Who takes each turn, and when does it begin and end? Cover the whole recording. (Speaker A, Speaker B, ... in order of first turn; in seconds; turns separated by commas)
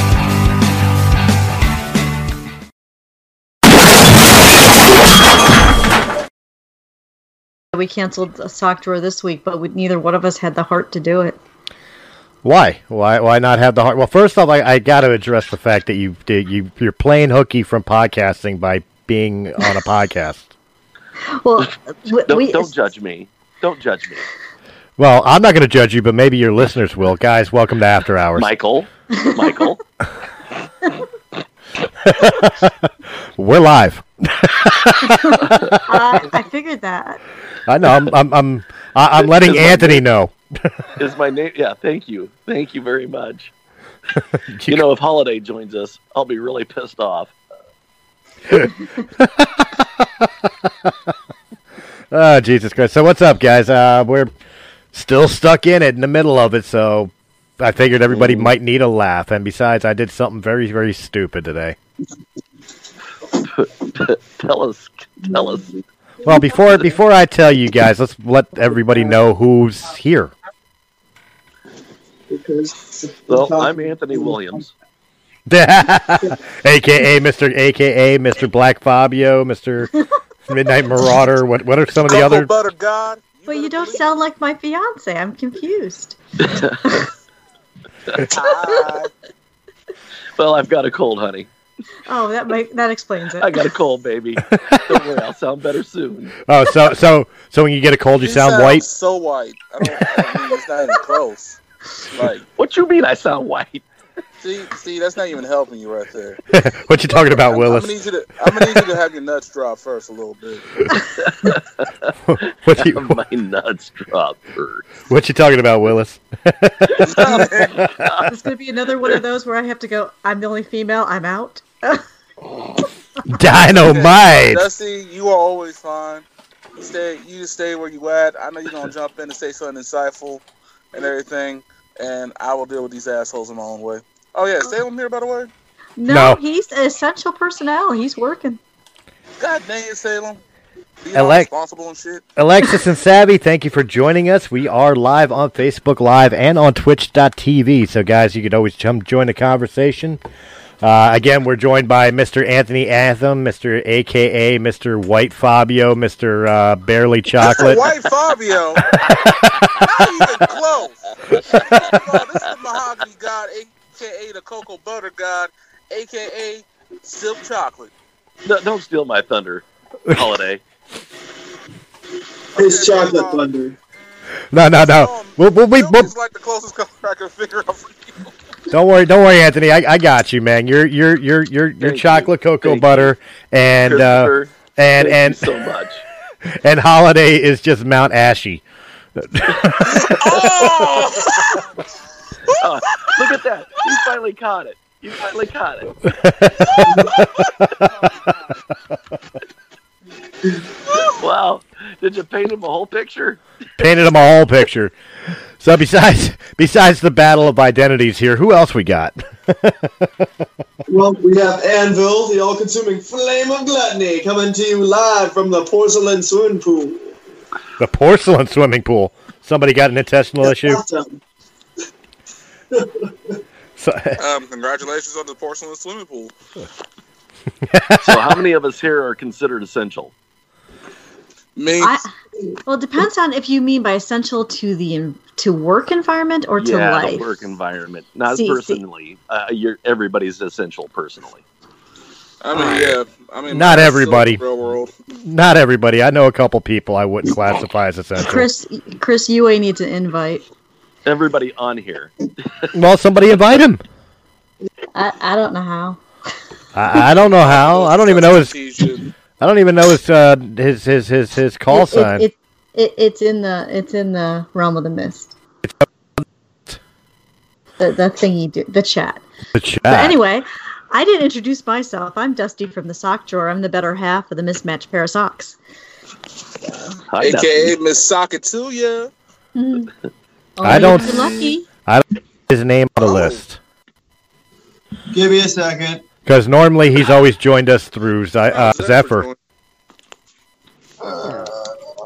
Speaker A: 7.7-11.4, Speaker B: 12.4-20.5, Speaker A: 21.3-22.7, Speaker C: 22.3-24.2, Speaker B: 25.0-28.5, Speaker C: 28.4-29.8, Speaker B: 32.0-32.8, Speaker B: 33.4-35.8, Speaker A: 35.1-37.2, Speaker B: 37.7-40.3, Speaker C: 39.4-40.0, Speaker C: 41.0-43.5, Speaker B: 44.5-44.8, Speaker C: 44.7-47.3, Speaker B: 48.5-50.3, Speaker B: 50.8-51.1, Speaker B: 52.1-54.3, Speaker B: 54.9-61.8, Speaker C: 58.1-58.5, Speaker C: 63.5-65.8, Speaker D: 65.3-65.6, Speaker B: 66.2-70.3, Speaker D: 72.3-74.6, Speaker C: 73.3-74.7, Speaker B: 75.5-79.9, Speaker B: 80.5-82.5, Speaker E: 82.0-84.0, Speaker A: 83.5-87.0, Speaker C: 86.5-86.8, Speaker E: 88.2-89.1, Speaker C: 90.4-91.5, Speaker A: 92.0-93.6, Speaker C: 93.4-96.4, Speaker B: 96.5-98.8, Speaker E: 98.2-101.6, Speaker E: 102.1-102.4, Speaker C: 102.5-103.8, Speaker E: 104.4-106.4, Speaker B: 106.5-108.0, Speaker E: 107.5-110.6, Speaker C: 111.2-112.1, Speaker B: 112.2-113.2, Speaker C: 112.7-114.9, Speaker B: 115.1-118.1, Speaker E: 117.0-117.8, Speaker C: 117.2-117.5, Speaker A: 118.3-122.0, Speaker B: 123.3-124.7, Speaker E: 123.7-126.2, Speaker E: 126.8-135.5, Speaker A: 136.0-138.6, Speaker B: 136.1-136.4, Speaker E: 139.4-140.4, Speaker E: 141.0-142.2, Speaker B: 141.1-141.5, Speaker B: 142.4-150.2, Speaker B: 150.8-157.8, Speaker E: 157.4-159.0, Speaker C: 159.2-159.8, Speaker E: 159.8-167.9, Speaker C: 161.3-162.0, Speaker C: 168.4-170.6, Speaker E: 172.5-173.4, Speaker D: 172.5-173.8, Speaker B: 174.5-176.1, Speaker E: 174.7-178.3, Speaker B: 178.7-185.5, Speaker C: 181.8-183.1, Speaker C: 183.8-186.0, Speaker B: 186.6-188.6, Speaker B: 189.2-190.9, Speaker E: 189.8-191.6, Speaker E: 192.5-193.1, Speaker C: 192.6-196.0, Speaker B: 196.2-197.7, Speaker E: 200.9-201.2, Speaker C: 201.2-203.4, Speaker B: 203.8-204.9, Speaker B: 205.6-210.3, Speaker D: 210.8-217.1, Speaker B: 217.8-220.8, Speaker D: 220.4-221.2, Speaker D: 222.7-223.3, Speaker B: 223.8-224.2, Speaker E: 224.2-226.3, Speaker B: 227.6-228.4, Speaker C: 228.0-230.1, Speaker E: 231.6-232.0, Speaker A: 231.8-232.1, Speaker A: 232.7-237.4, Speaker C: 236.6-241.4, Speaker A: 238.3-238.8, Speaker E: 242.4-244.9, Speaker B: 242.6-242.8, Speaker B: 243.5-244.4, Speaker B: 245.2-248.5, Speaker A: 248.2-250.4, Speaker C: 251.1-252.7, Speaker B: 252.7-253.8, Speaker A: 254.9-256.0, Speaker B: 256.7-258.5, Speaker E: 257.2-259.1, Speaker B: 259.4-262.2, Speaker A: 261.7-265.3, Speaker B: 265.6-266.8, Speaker A: 267.8-269.2, Speaker B: 269.5-270.2, Speaker A: 269.9-275.6, Speaker C: 277.1-277.8, Speaker E: 277.2-279.1, Speaker A: 279.5-279.9, Speaker A: 280.6-281.6, Speaker B: 280.6-283.6, Speaker E: 280.7-281.5, Speaker E: 283.0-283.4, Speaker D: 285.1-286.0, Speaker B: 286.2-289.3, Speaker E: 288.5-289.3, Speaker D: 291.0-291.7